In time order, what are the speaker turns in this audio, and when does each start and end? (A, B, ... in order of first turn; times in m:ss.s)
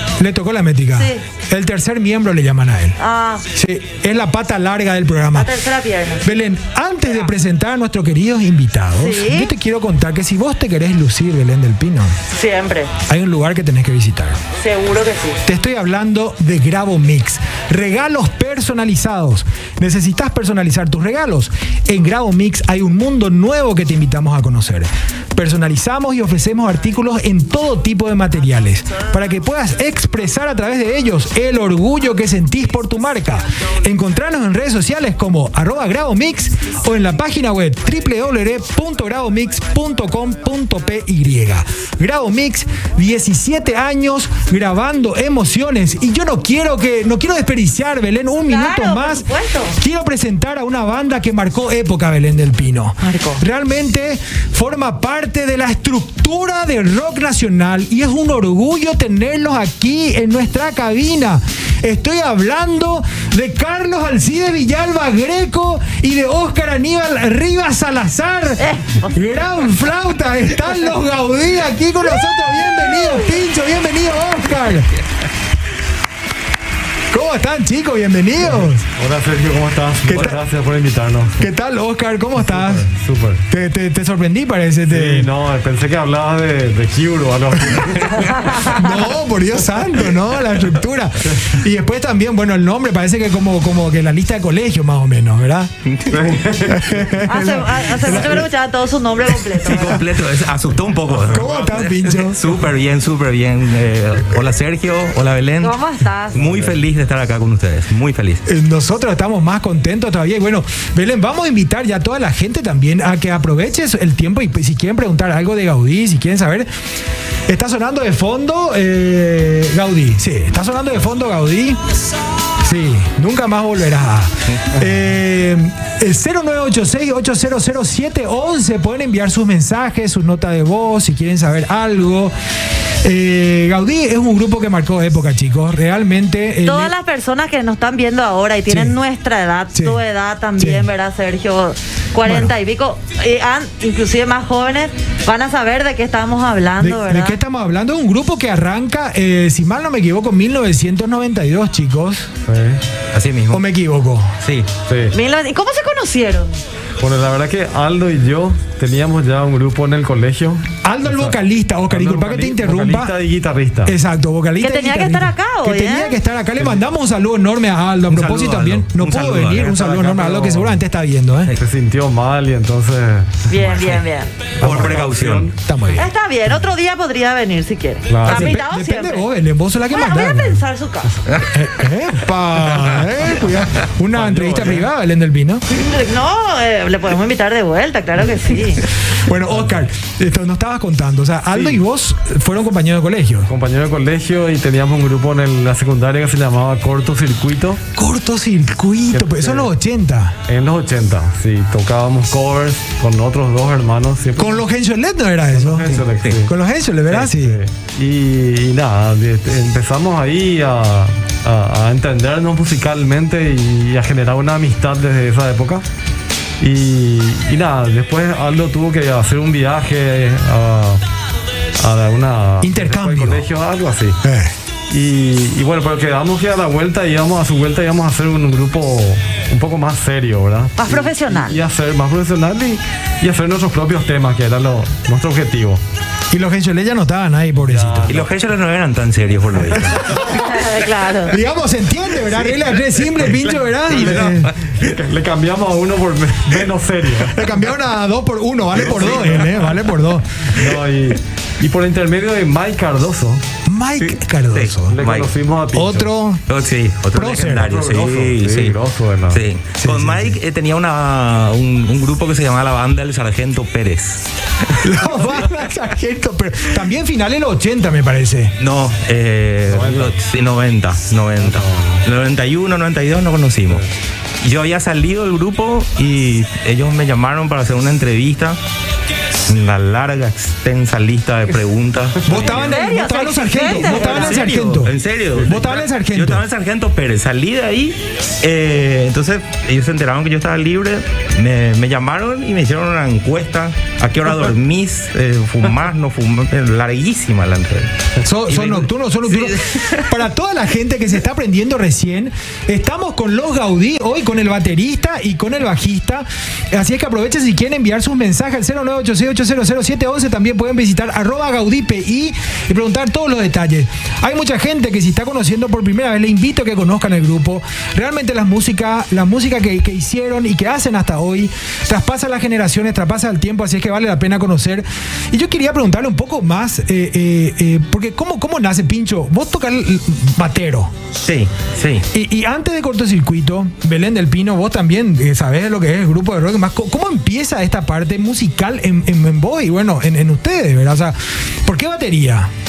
0:00.2-0:03.0 A
0:01.0-0:01.2 B
0:03.0-0:03.5 B
0:03.6-0:05.5 A
0:05.3-0:06.3 B
0:06.2-0:12.2 A
0:09.0-0:09.5 B
0:12.3-0:12.9 B
0:13.1-0:14.4 A
0:14.6-0:15.4 B
0:15.5-1:14.9 A
0:48.5-0:49.8 B
0:53.0-0:53.4 B
1:08.6-1:09.2 B
1:17.1-1:18.9 A
1:18.5-1:21.4 C
1:20.0-1:20.4 A
1:21.4-1:22.9 A
1:22.4-1:23.4 C
1:23.5-1:25.3 A
1:24.9-1:28.5 C
1:28.4-1:35.7 A
1:35.9-1:36.3 D
1:36.1-1:37.1 C
1:36.6-1:38.5 A
1:37.2-1:40.0 B
1:39.5-1:40.0 A
1:39.6-1:45.8 D
1:41.3-1:42.5 A
1:45.6-1:46.4 B
1:46.3-1:48.4 D
1:46.3-1:46.8 C
1:48.5-1:56.7 A
1:57.5-2:01.8 A
2:02.6-2:12.3 A
2:13.0-2:16.9 A
2:16.6-2:27.4 B
2:18.7-2:19.0 A
2:19.7-2:20.0 A
2:20.6-2:20.9 A
2:22.2-2:22.6 A
2:26.8-2:32.3 A
2:32.5-2:32.8 C
2:33.1-2:33.6 D
2:33.5-2:34.4 A
2:34.4-2:34.7 D
2:34.9-2:35.2 C
2:35.1-2:36.6 B
2:37.0-2:41.3 C
2:40.8-2:43.1 A
2:41.9-2:44.0 C
2:43.8-2:51.5 A
2:44.6-2:46.2 B
2:46.6-2:46.8 C
2:48.1-2:50.0 D
2:49.6-2:50.8 C
2:51.6-2:53.5 C
2:53.5-2:54.3 B
2:53.5-2:54.0 A
2:54.6-2:55.5 C
2:54.6-2:55.5 D
2:54.6-2:55.0 A
2:55.6-2:56.1 A
2:55.9-2:59.3 B
2:58.1-2:58.6 C
2:58.2-3:00.6 A
2:59.9-3:01.1 B
3:01.5-3:05.6 A
3:04.1-3:04.9 C
3:05.7-3:08.8 B
3:09.1-3:13.5 A
3:09.5-3:09.8 C
3:11.6-3:11.8 C
3:13.5-3:17.8 C
3:18.0-3:20.4 A
3:19.1-3:19.7 C
3:20.5-3:24.6 C
3:24.4-3:27.6 A
3:25.5-3:26.5 C
3:25.9-3:26.4 D
3:27.1-3:35.8 C
3:36.6-3:41.0 C
3:41.8-3:44.2 C
3:42.6-3:43.5 A
3:44.2-3:44.5 A
3:44.9-3:55.8 C
3:50.8-3:51.6 B
3:56.3-3:58.2 A
3:57.6-3:58.3 C
3:58.1-4:00.3 D
3:59.8-4:00.7 A
4:00.3-4:01.4 B
4:01.2-4:04.5 A
4:02.6-4:05.0 D
4:04.0-4:07.5 C
4:07.2-4:10.7 A
4:08.8-4:09.6 C
4:08.9-4:09.5 D
4:10.5-4:13.4 C
4:13.7-4:15.0 A
4:14.0-4:15.3 D
4:14.9-4:16.1 C
4:15.7-4:16.4 A
4:16.5-4:18.8 D
4:17.1-4:17.8 A
4:17.6-4:19.4 C
4:19.3-4:24.3 D
4:19.8-4:20.4 A
4:24.8-4:28.5 A
4:28.6-4:33.8 D
4:29.7-4:30.2 C
4:31.4-4:32.0 C
4:34.4-4:38.6 D
4:39.5-4:42.7 D
4:42.2-4:42.8 C
4:42.2-4:46.4 A
4:42.4-4:44.4 B
4:43.7-4:57.9 D
4:58.2-5:30.9 A
4:58.5-5:00.2 D
5:31.2-5:32.1 D
5:32.1-5:42.5 A